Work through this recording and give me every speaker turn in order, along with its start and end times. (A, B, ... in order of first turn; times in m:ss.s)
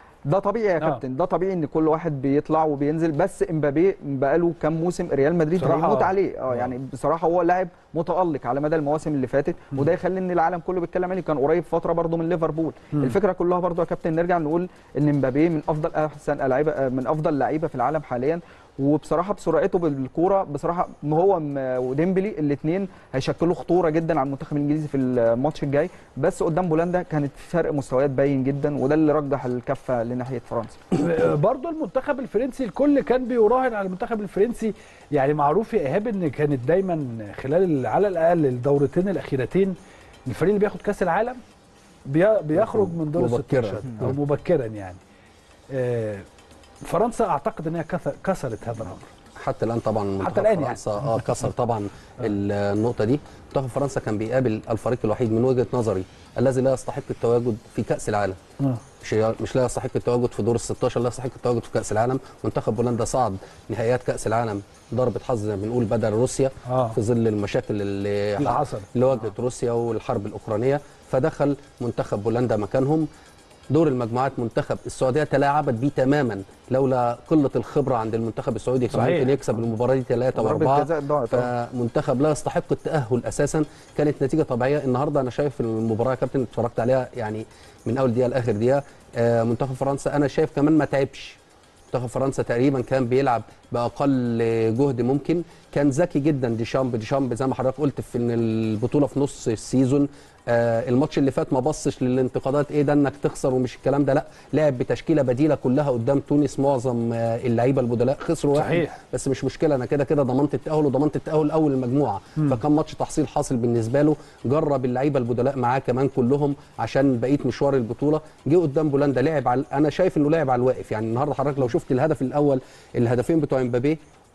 0:00.2-0:30.8 A
0:05.6-0:06.7 B
0:30.9-0:39.7 B
0:40.2-0:41.4 B
0:42.1-0:45.0 B
0:42.6-0:44.2 C
0:45.7-0:46.2 B
0:46.8-0:49.1 B
0:49.4-0:58.4 C
0:50.2-0:51.2 B
0:59.0-1:13.1 C
1:06.6-1:07.0 B
1:08.4-1:08.9 B
1:13.7-1:31.4 C
1:18.9-1:19.4 B
1:20.3-1:21.5 A
1:31.9-2:04.0 C
1:48.5-1:49.0 B